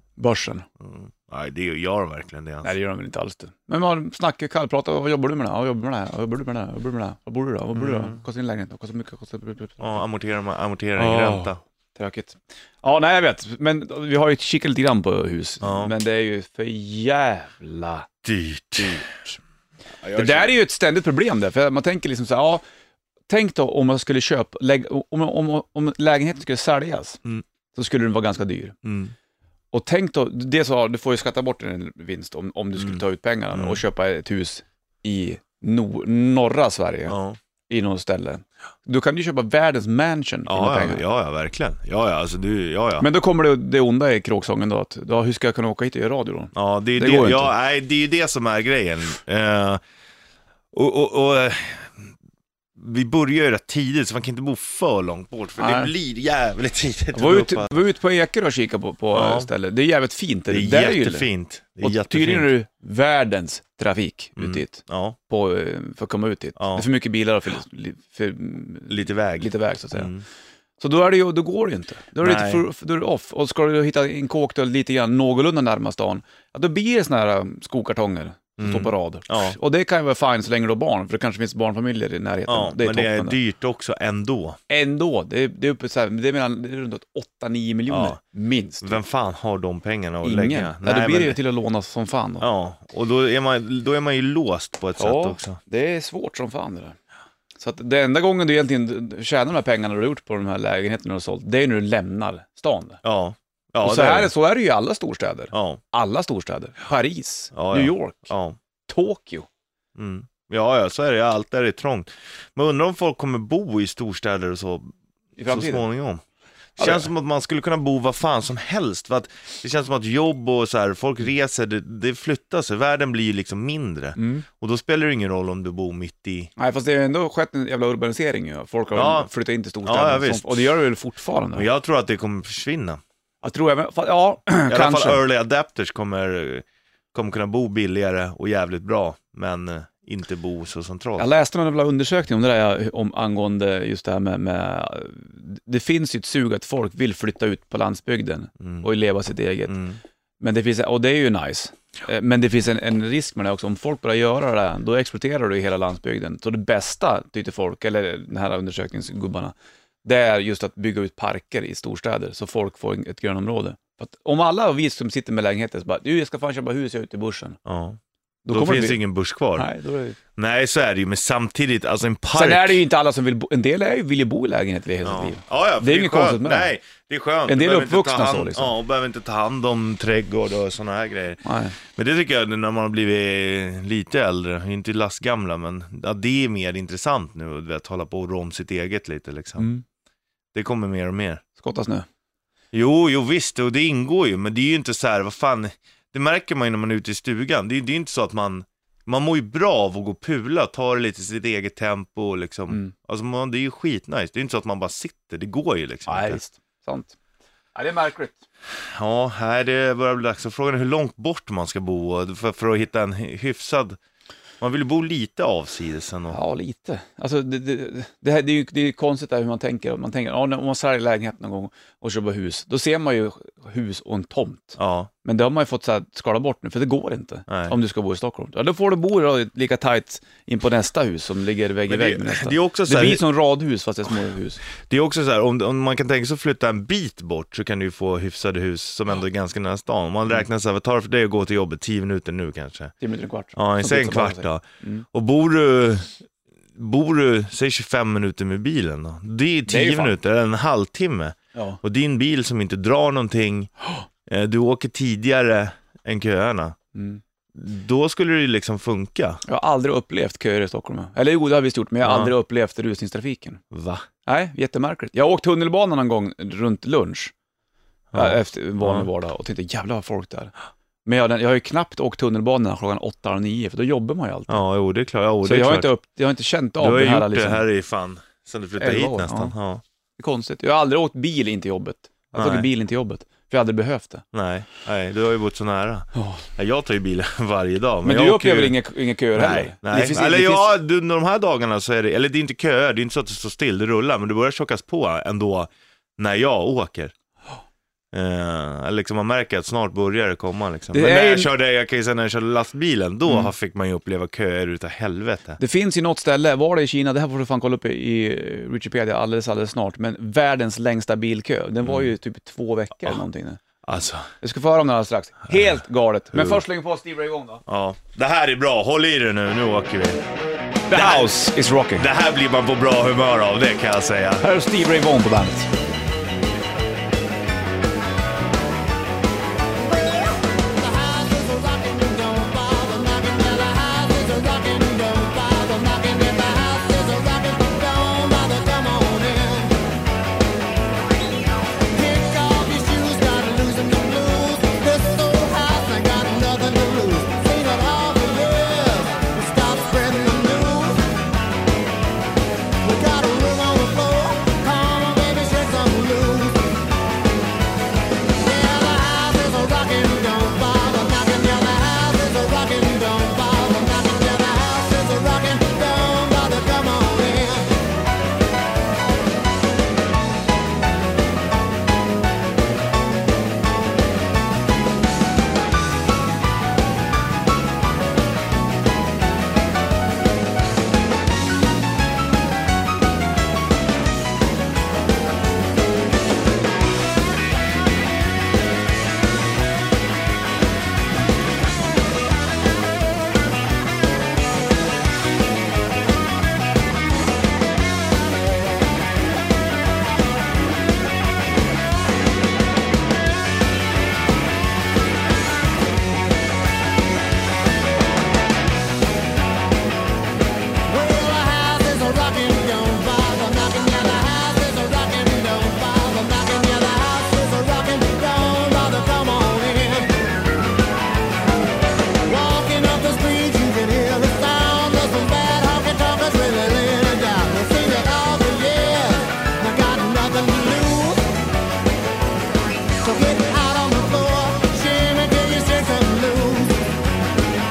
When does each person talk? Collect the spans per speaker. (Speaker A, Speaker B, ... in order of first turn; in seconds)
Speaker A: 0.2-0.7, 2.6-10.0, 11.0-18.1, 18.8-19.4, 20.1-22.6, 23.3-27.2, 27.7-28.8, 29.7-37.2, 37.7-41.0, 43.0-47.5, 55.6-55.9, 57.1-61.3, 61.8-70.1, 70.8-83.4, 84.7-89.0, 90.2-92.5, 95.0-97.0, 97.6-103.0, 103.8-108.3, 108.9-109.5, 115.4-115.8, 116.8-117.1, 124.2-124.5, 126.6-131.7, 133.4-135.2, 141.2-149.8, 150.4-159.5, 160.1-167.6, 168.5-169.0, 169.6-170.2, 172.3-176.7, 177.5-178.7, 181.4-181.8, 189.6-189.8, 191.6-192.1, 206.1-207.2, 207.8-208.4, 216.3-234.6, 243.0-245.1, 249.7-250.1, 251.5-251.8, 256.9-257.2, 259.4-263.6, 264.2-267.3, 268.1-270.5, 271.1-274.6, 275.4-277.6, 278.8-279.5, 280.2-284.2, 286.1-286.4, 288.0-290.7, 300.9-301.5, 305.6-313.6, 314.4-317.6, 320.9-322.1, 324.4-325.7
Speaker B: 0.8-2.7, 7.7-8.2, 9.8-11.6, 15.6-15.9, 18.2-19.1, 20.0-20.5, 28.8-29.1, 32.8-33.8, 37.1-37.4, 40.5-43.1, 46.5-49.8, 50.7-52.1, 52.8-57.8, 59.1-59.5, 60.5-62.5, 64.4-65.2, 66.6-66.9, 68.9-70.2, 72.2-72.7, 78.6-79.6, 82.5-84.6, 87.9-88.2, 88.8-91.4, 92.4-95.6, 103.0-104.3, 105.5-105.8, 107.5-108.6, 110.0-114.9, 115.5-116.2, 116.8-126.5, 128.9-129.3, 129.8-130.8, 131.5-133.0, 134.7-141.3, 148.6-148.9, 149.7-150.0, 167.7-168.0, 168.5-169.7, 170.4-172.8, 175.0-189.7, 190.5-191.4, 192.7-206.4, 208.9-214.0, 214.6-216.4, 224.8-225.1, 227.5-227.8, 231.9-233.2, 234.8-242.9, 243.6-246.1, 246.8-253.7, 254.3-256.8, 257.6-259.4, 262.0-262.3, 263.7-264.1, 268.1-269.1, 274.5-275.9, 276.8-279.8, 282.4-282.7, 284.3-288.8, 289.3-297.1, 298.1-305.6, 311.8-312.1, 313.8-314.3, 316.3-316.6, 317.7-320.2, 320.9-321.4, 321.9-324.4
Speaker C: 330.7-339.8, 341.9-351.1, 352.8-356.8, 358.4-367.8, 410.9-420.3, 422.2-431.4, 433.0-436.9